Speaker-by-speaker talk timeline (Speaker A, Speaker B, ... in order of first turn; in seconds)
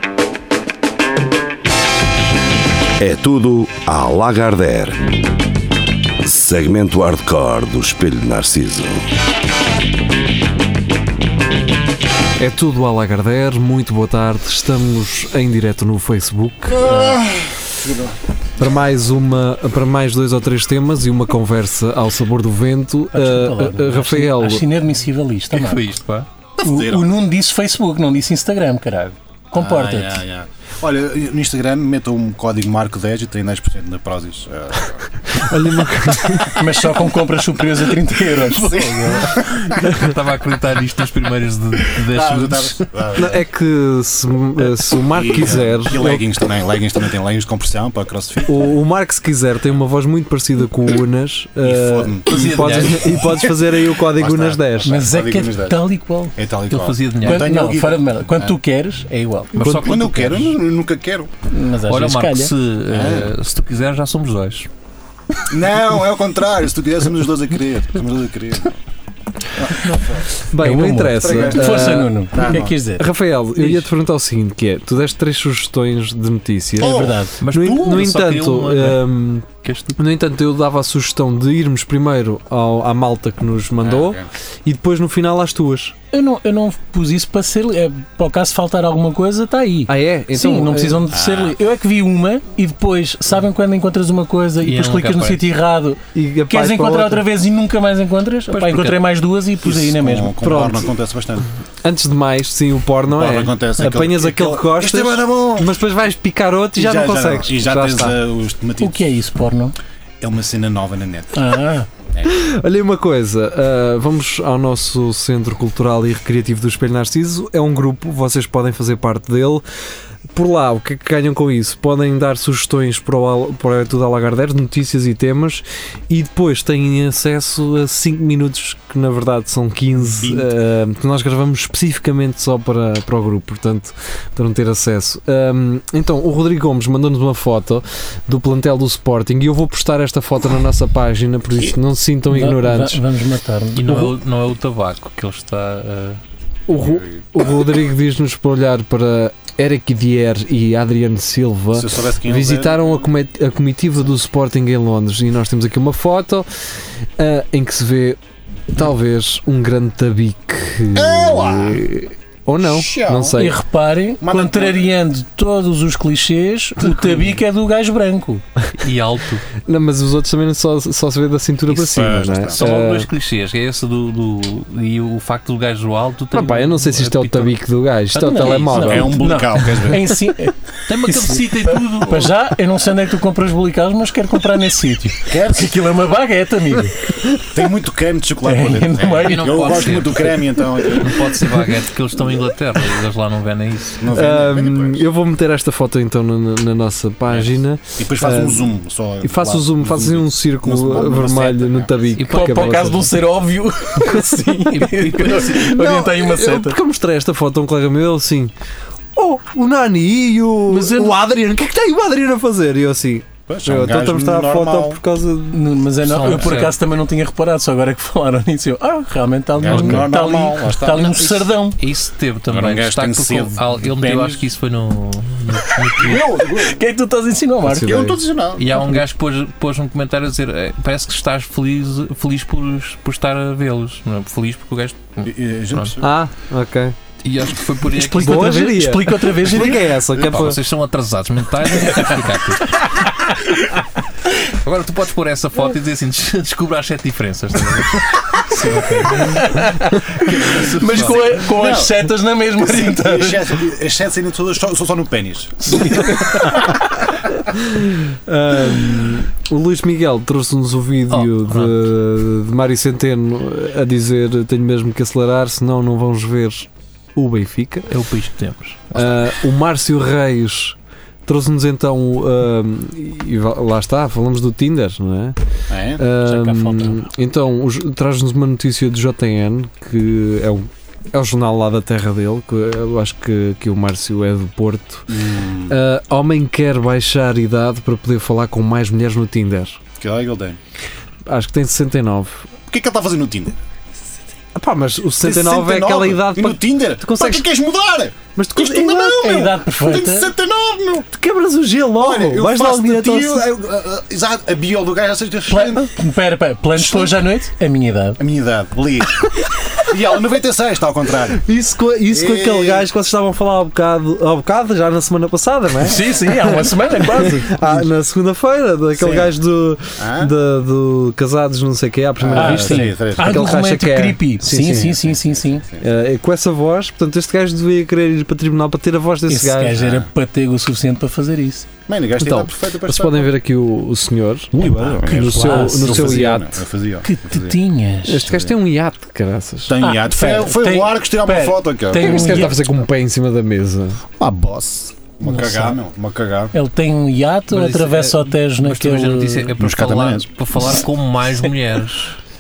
Speaker A: 3.0-5.0, 6.2-9.1
Speaker B: 12.4-17.2, 18.6-24.7, 35.3-36.7, 43.2-46.3, 48.5-55.0, 59.6-59.9, 70.4-86.0, 89.9-91.0, 96.1-97.2, 100.4-100.9, 101.8-108.2, 112.2-119.7, 120.3-143.0, 146.7-158.2, 158.7-163.6, 169.6-173.1, 176.3-179.4, 194.1-203.1, 205.6-208.5, 209.2-215.7, 227.6-228.2, 236.0-237.0, 237.9-240.6, 256.5-267.9, 268.9-275.4, 275.9-289.8, 291.3-292.5, 294.6-297.5, 298.4-299.5, 301.1-303.5, 311.4-325.0, 325.8-329.9, 332.2-336.6, 338.1-339.8, 341.9-344.0
Speaker C: 16.7-18.2, 26.6-27.1, 29.6-35.1, 38.5-39.8, 42.0-43.4, 45.1-48.7, 51.6-58.5, 59.6-61.3, 62.9-63.3, 65.5-68.8, 69.6-70.4, 71.3-72.8, 76.8-77.2, 83.8-84.3, 91.1-91.6, 99.6-101.5, 103.1-105.7, 106.8-109.0, 110.2-111.6, 112.1-112.4, 130.1-130.5, 146.8-147.2, 151.7-153.0, 160.9-161.9, 162.6-163.4, 164.2-164.8, 171.7-172.6, 178.7-180.2, 185.3-185.8, 187.3-191.6, 194.0-195.0, 197.3-202.1, 213.5-215.0, 219.6-221.3, 222.5-224.4, 226.0-226.8, 227.8-228.7, 235.2-236.1, 250.8-256.1, 275.7-276.1, 285.1-285.8, 290.0-290.6, 292.7-293.6, 295.2-301.1, 302.0-305.9, 306.8-307.2, 308.2-311.4, 312.1-312.9, 320.0-320.3, 322.2-323.5, 324.5-325.9, 329.8-330.1, 331.9-333.3, 334.6-337.6, 338.2-338.5, 339.7-342.6, 344.2-346.5, 349.6-350.3
Speaker D: 23.1-25.9, 26.6-30.2, 36.5-39.2, 54.9-56.4, 57.2-59.5, 61.5-62.5, 70.6-73.9, 76.8-77.3, 86.1-100.4, 108.8-109.8, 111.3-111.9, 142.3-144.1, 163.3-168.4, 178.1-187.2, 188.4-190.1, 202.2-206.8, 210.7-211.2, 215.5-221.8, 226.4-228.1, 238.0-239.9, 243.2-243.7, 248.8-253.6, 255.7-256.7, 276.1-277.1, 299.2-300.3, 305.5-308.2, 315.8-317.9, 322.4-325.6, 329.3-331.7, 335.0-336.4, 337.0-338.4, 339.8-342.6, 345.2-345.8, 346.5-349.5
Speaker E: 25.5-26.3, 38.5-42.9, 52.3-53.1, 56.7-57.5, 59.5-60.6, 61.9-64.7, 77.4-79.0, 79.6-80.0, 94.6-95.4, 98.5-99.0, 143.8-146.2, 168.8-169.5, 172.5-177.6, 180.9-182.3, 189.2-194.0, 202.2-202.7, 204.7-205.9, 216.1-216.8, 219.7-220.0, 220.9-226.3, 228.6-235.9, 237.2-238.7, 240.1-243.0, 244.4-251.4, 261.1-261.8, 267.9-269.1, 347.5-352.2